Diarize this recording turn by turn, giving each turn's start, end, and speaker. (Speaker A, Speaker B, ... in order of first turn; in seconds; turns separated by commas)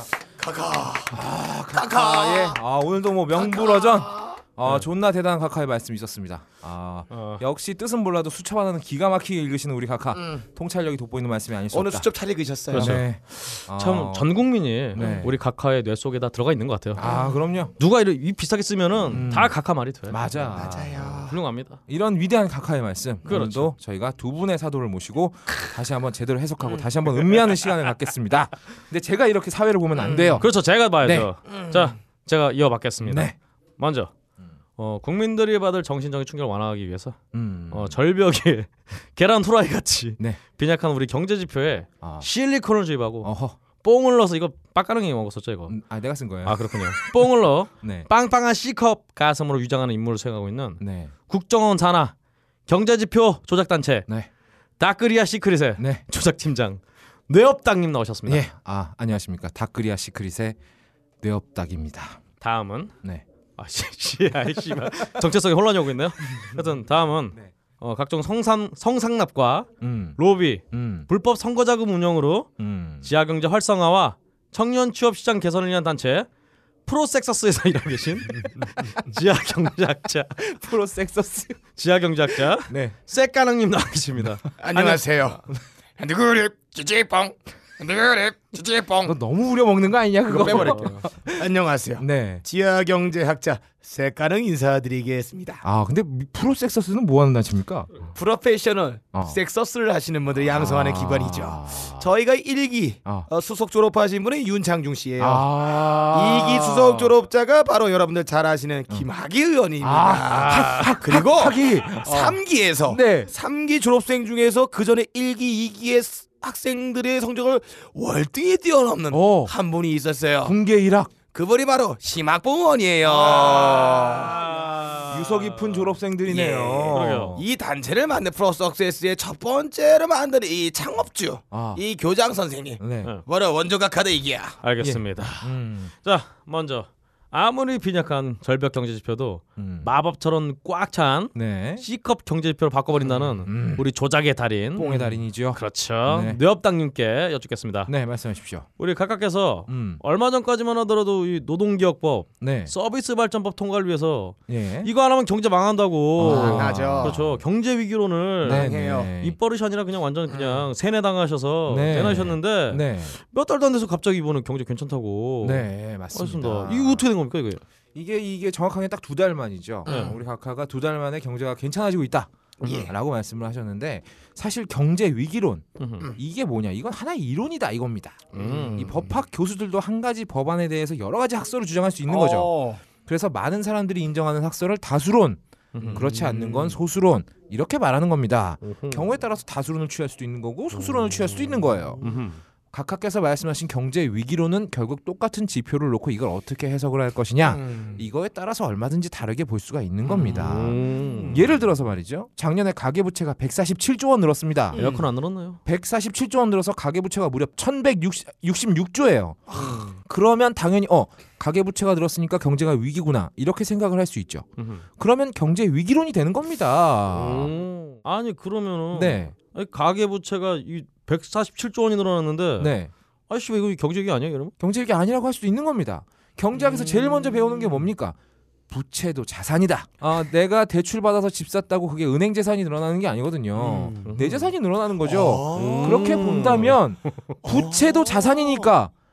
Speaker A: 0.4-2.6, Speaker B: 1.1-12.1, Speaker A: 3.4-4.4, Speaker C: 7.1-7.4, Speaker A: 11.7-13.0, Speaker B: 12.7-14.3, Speaker C: 12.7-17.1, Speaker B: 14.9-15.3, Speaker B: 16.9-17.7, Speaker A: 17.0-17.3, Speaker C: 17.8-20.6, Speaker B: 19.1-19.5, Speaker B: 20.1-21.2, Speaker A: 20.5-21.4, Speaker C: 21.3-21.8, Speaker B: 21.9-30.5, Speaker C: 23.3-23.7, Speaker A: 30.1-30.4, Speaker C: 30.4-34.1, Speaker B: 31.0-31.3, Speaker A: 31.5-31.8, Speaker B: 33.0-33.4, Speaker C: 34.8-37.2, Speaker B: 37.3-38.0, Speaker C: 37.7-43.3, Speaker B: 42.0-42.3, Speaker B: 43.2-43.6, Speaker C: 43.8-45.8, Speaker B: 45.7-46.8, Speaker C: 46.4-52.1, Speaker B: 47.8-48.1, Speaker B: 50.8-51.1, Speaker C: 52.7-54.1, Speaker C: 54.8-58.5, Speaker B: 55.8-56.0, Speaker B: 58.3-60.6, Speaker B: 61.2-62.2, Speaker C: 62.4-62.9, Speaker C: 63.6-76.3, Speaker B: 69.8-70.2, Speaker B: 70.7-71.1, Speaker B: 72.6-73.1, Speaker C: 76.9-80.5, Speaker B: 80.4-81.6, Speaker C: 81.8-85.0, Speaker B: 82.7-83.0, Speaker A: 84.6-85.4, Speaker A: 86.0-89.2, Speaker B: 89.0-91.4, Speaker A: 90.3-95.6, Speaker C: 90.5-90.8, Speaker B: 92.0-92.5, Speaker B: 95.6-97.9, Speaker A: 98.1-120.6, Speaker B: 99.1-99.4, Speaker B: 100.4-102.1, Speaker B: 105.2-107.1, Speaker B: 109.8-113.3, Speaker C: 110.3-111.0, Speaker B: 119.1-119.5, Speaker B: 120.4-121.1, Speaker A: 121.3-124.5, Speaker C: 123.2-125.8, Speaker B: 123.5-124.0, Speaker B: 125.1-127.5, Speaker A: 126.3-134.6, Speaker C: 126.9-127.4, Speaker B: 131.5-131.8, Speaker B: 132.8-133.1, Speaker C: 134.6-147.9, Speaker B: 134.8-135.9, Speaker B: 139.6-139.9, Speaker B: 141.3-141.8, Speaker B: 143.0-143.8, Speaker B: 144.8-146.4, Speaker B: 147.9-148.7, Speaker C: 148.8-167.6, Speaker B: 149.7-150.0, Speaker B: 152.4-152.7, Speaker B: 154.5-154.9, Speaker B: 156.2-157.4, Speaker A: 156.2-157.2, Speaker B: 158.4-159.4, Speaker A: 158.4-159.1, Speaker A: 160.3-160.7, Speaker B: 161.7-163.2, Speaker B: 165.4-167.1, Speaker B: 167.9-182.5, Speaker C: 169.9-170.2, Speaker A: 169.9-170.2, Speaker A: 172.6-172.9, Speaker C: 175.8-176.1, Speaker C: 178.3-179.1, Speaker A: 182.1-182.8, Speaker B: 183.1-192.0, Speaker C: 185.8-186.1, Speaker A: 185.8-186.8, Speaker C: 188.6-189.1, Speaker C: 192.0-192.4, Speaker B: 192.7-204.9, Speaker A: 197.6-198.0, Speaker A: 200.1-200.4, Speaker C: 200.2-201.4, Speaker A: 201.0-201.4, Speaker A: 204.7-205.1, Speaker C: 204.7-205.6, Speaker B: 205.7-214.4, Speaker A: 209.5-210.0, Speaker C: 214.6-214.8, Speaker B: 215.0-217.5, Speaker C: 217.1-222.7, Speaker B: 218.9-219.3, Speaker B: 222.6-222.9, Speaker C: 223.3-224.5, Speaker B: 224.6-228.2, Speaker B: 228.7-238.9, Speaker A: 233.6-234.2, Speaker C: 234.1-234.5, Speaker A: 235.0-236.4, Speaker C: 235.5-237.1, Speaker A: 237.4-238.7